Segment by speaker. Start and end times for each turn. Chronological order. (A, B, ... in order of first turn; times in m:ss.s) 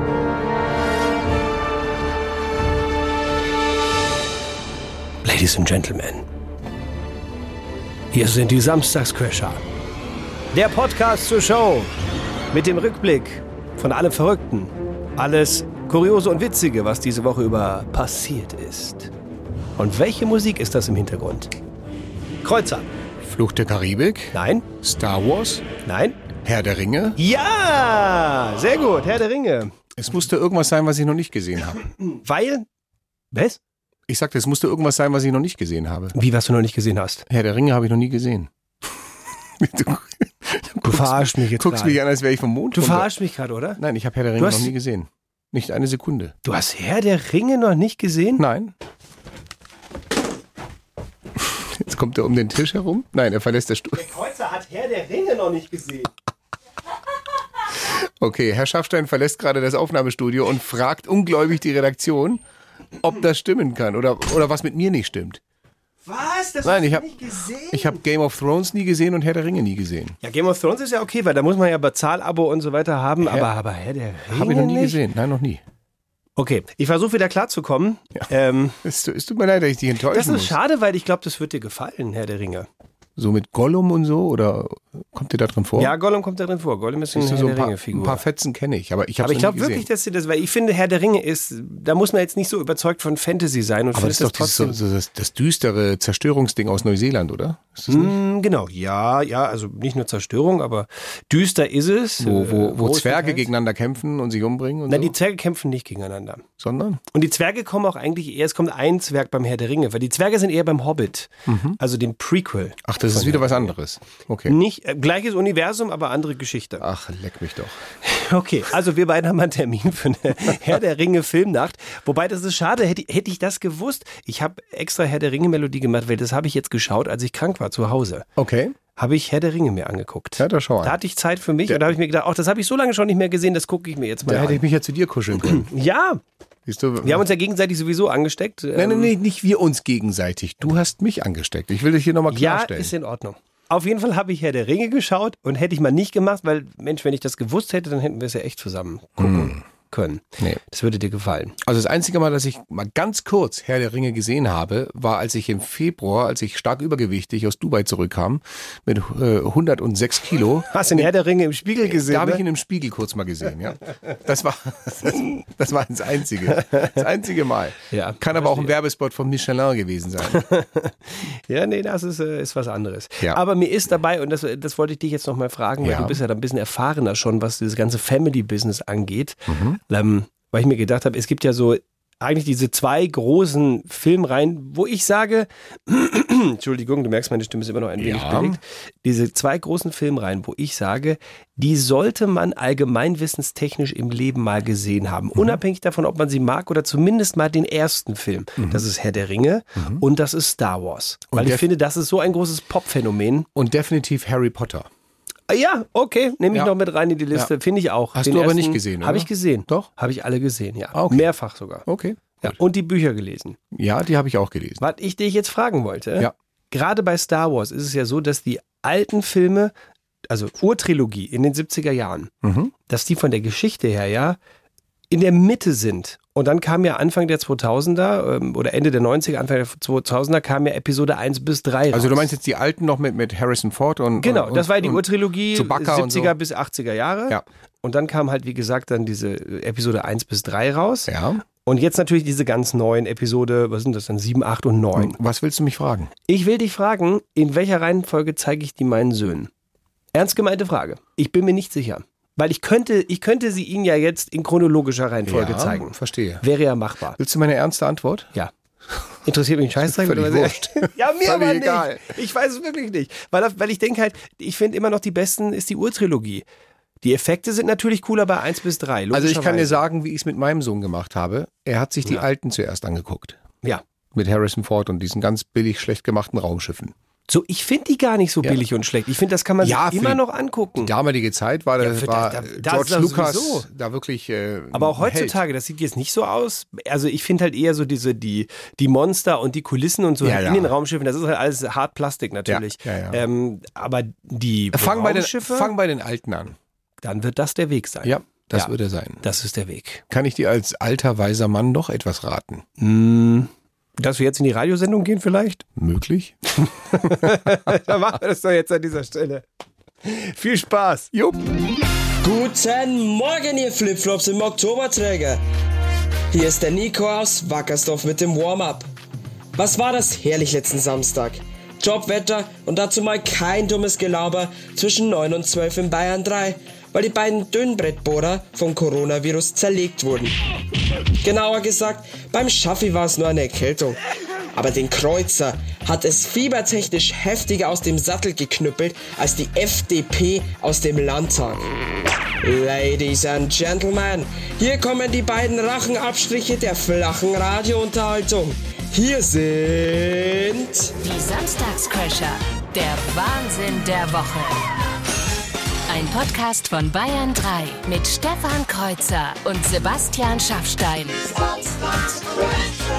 0:05.2-0:06.3 A
0:08.1-0:09.6 A
0:10.5-0:11.9 A
0:12.5-0:19.1 A
0:19.8-0:21.5 A
0:22.4-0:22.9 A
0:23.2-0:25.7 B
0:24.3-0:24.7 A
0:25.8-0:26.2 A
0:26.4-0:27.2 B
0:27.2-0:29.8 A
0:30.0-0:31.8 B
0:32.0-0:32.7 A
0:33.3-0:33.6 A
0:34.1-0:36.2 B
0:36.1-0:37.2 A
0:37.3-0:38.5 B
0:39.6-0:43.1 B
0:40.8-0:42.0 A
0:42.8-0:43.8 A
0:43.8-0:46.4 B
0:44.4-0:44.7 A
0:46.4-0:48.4 A
0:48.4-0:48.7 B
0:51.6-0:54.0 B
0:54.0-0:56.1 A
0:57.9-1:02.4 B
1:03.0-1:05.4 B
1:06.0-1:08.0 A
1:06.6-1:07.2 B
1:07.7-1:10.2 B
1:10.2-1:15.0 A
1:13.2-1:13.5 B
1:14.3-1:15.6 B
1:16.4-1:18.8 A
1:18.8-1:20.6 B
1:20.1-1:22.7 A
1:23.2-1:25.9 B
1:25.8-1:28.2 A
1:27.1-1:29.9 B
1:29.2-1:34.8 A
1:34.0-1:38.2 B
1:37.9-1:43.5 A
1:42.2-1:45.1 B
1:44.9-1:46.4 A
1:46.6-1:47.0 B
1:47.1-1:53.7 A
1:51.5-1:51.8 B
1:52.8-1:54.6 B
1:54.5-1:56.8 A
1:56.8-1:57.8 B
1:58.0-2:08.3 A
2:08.4-2:08.8 B
2:09.0-2:14.6 A
2:10.4-2:11.0 B
2:11.7-2:11.9 B
2:14.3-2:15.7 B
2:15.4-2:16.2 A
2:16.7-2:17.2 B
2:17.0-2:19.1 A
2:18.8-2:22.9 B
2:22.3-2:31.6 A
2:29.2-2:29.6 B
2:31.6-2:41.1 B
2:40.7-2:42.4 A
2:41.9-2:50.5 B
2:47.9-2:48.7 A
2:50.3-3:23.5 A
2:55.8-2:56.2 B
2:59.5-2:59.8 B
3:08.0-3:08.6 B
3:18.6-3:18.8 B
3:19.8-3:20.0 B
3:21.3-3:21.6 B
3:23.6-3:24.9 B
3:25.5-3:31.9 A
3:28.1-3:29.9 B
3:30.9-3:31.3 B
3:31.9-3:32.6 B
3:32.4-3:33.6 A
3:33.7-3:34.8 B
3:34.8-3:39.7 A
3:40.3-3:42.3 A
3:42.4-3:42.7 B
3:42.9-3:44.4 A
3:45.1-3:52.3 A
3:51.9-3:56.4 B
3:54.2-4:01.1 A
4:01.1-4:01.4 B
4:01.6-4:05.2 A
4:05.0-4:06.1 B
4:06.3-4:09.5 A
4:10.1-4:17.2 A
4:15.3-4:16.4 B
4:17.2-4:18.3 B
4:19.2-4:26.4 A
4:19.8-4:22.1 B
4:27.0-4:29.8 A
4:29.1-4:33.4 B
4:34.1-4:36.9 B
4:37.3-4:40.9 A
4:39.6-4:40.2 B
4:40.8-4:45.4 B
4:41.8-4:43.7 A
4:44.7-4:55.7 A
4:50.2-4:50.7 B
4:52.5-4:53.2 B
4:54.7-4:56.6 B
4:57.0-5:00.0 A
4:58.0-4:59.2 B
5:00.1-5:02.6 B
5:02.8-5:05.6 A
5:05.8-5:06.4 B
5:06.9-5:09.4 A
5:06.9-5:07.3 B
5:10.0-5:11.1 A
5:11.1-5:11.5 B
5:12.2-5:15.4 C
5:16.3-5:18.9 C
5:19.6-5:30.3 C
5:31.2-5:34.0 C
5:34.5-5:41.6 C
5:42.4-5:50.9 C
5:51.0-5:54.8 D
5:55.9-6:01.6 D